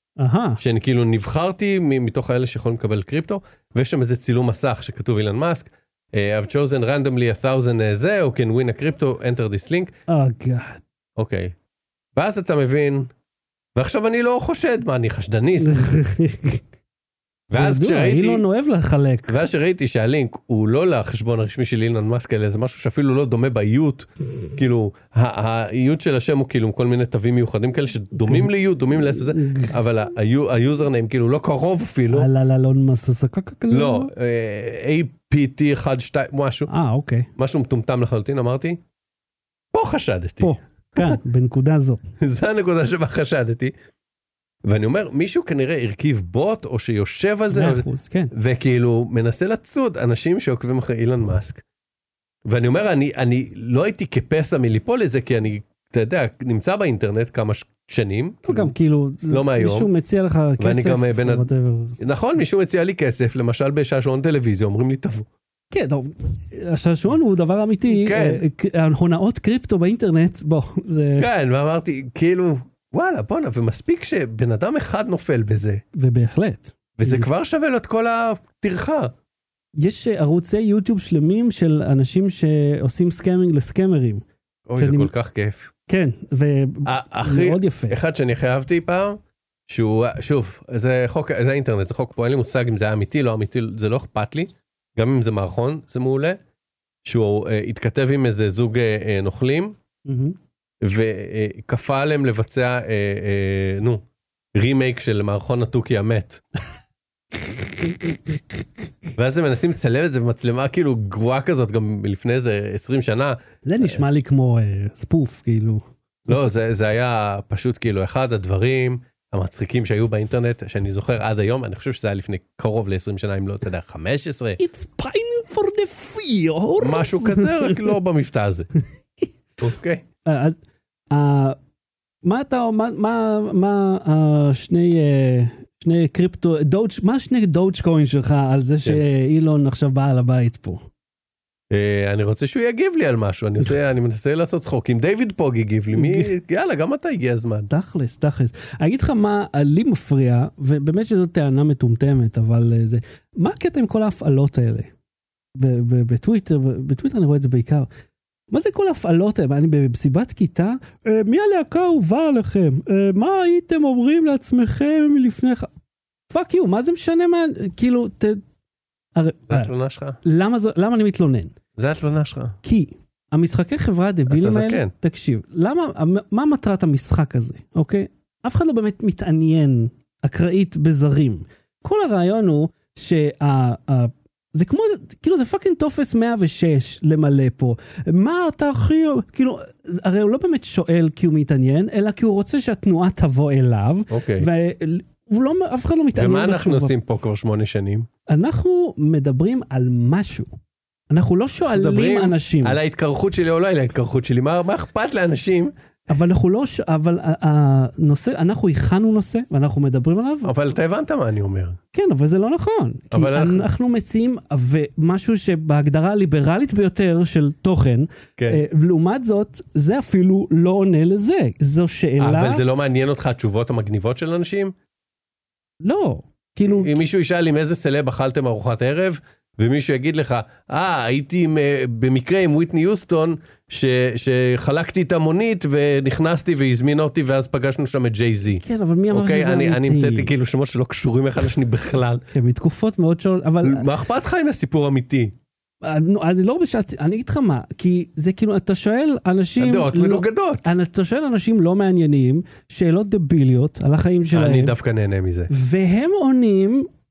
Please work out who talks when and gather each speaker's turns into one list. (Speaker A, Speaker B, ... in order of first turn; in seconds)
Speaker A: 0.2-0.6, 10.1-10.8, 15.6-16.6, 17.5-19.4, 28.2-29.7, 32.1-34.1, 36.7-37.3, 40.4-42.0, 47.5-48.3, 58.5-62.0, 65.7-71.3, 75.9-77.3, 79.7-84.2, 84.8-85.1, 85.9-88.0, 100.0-100.4, 107.8-108.4, 113.6-115.8, 124.6-127.9, 130.2-130.6, 131.1-131.6, 132.2-140.8, 145.9-146.3, 147.7-154.9, 155.5-157.9, 158.5-165.7, 166.3-168.4, 169.1-169.7, 170.2-171.5, 172.6-196.9, 198.3-200.5, 201.1-202.8, 206.1-210.5, 211.9-222.6, 225.8-226.9, 238.6-240.3, 242.3-243.9, 245.8-254.7, 255.5-256.9
Speaker B: 0.6-9.9, 11.2-11.5, 12.2-13.1, 13.7-15.8, 17.5-18.4, 19.3-32.3, 33.7-36.7, 37.4-38.8, 39.7-41.2, 42.2-43.7, 44.6-51.6, 52.5-58.7, 59.3-59.9, 60.6-61.5, 62.0-65.3, 67.9-68.4, 71.2-75.8, 77.0-79.1, 84.7-85.7, 86.8-96.4, 97.0-99.8, 100.8-104.0, 104.5-106.4, 109.2-114.0, 116.3-124.6, 126.8-128.7, 129.6-130.0, 141.7-147.7, 169.5-170.2, 171.8-172.6, 174.3-174.9, 194.1-194.5, 196.1-198.1, 201.7-205.7, 210.4-211.8, 213.1-213.7, 218.4-218.6, 222.2-224.7, 226.7-242.2, 243.6-245.3, 249.6-250.7, 254.3-255.5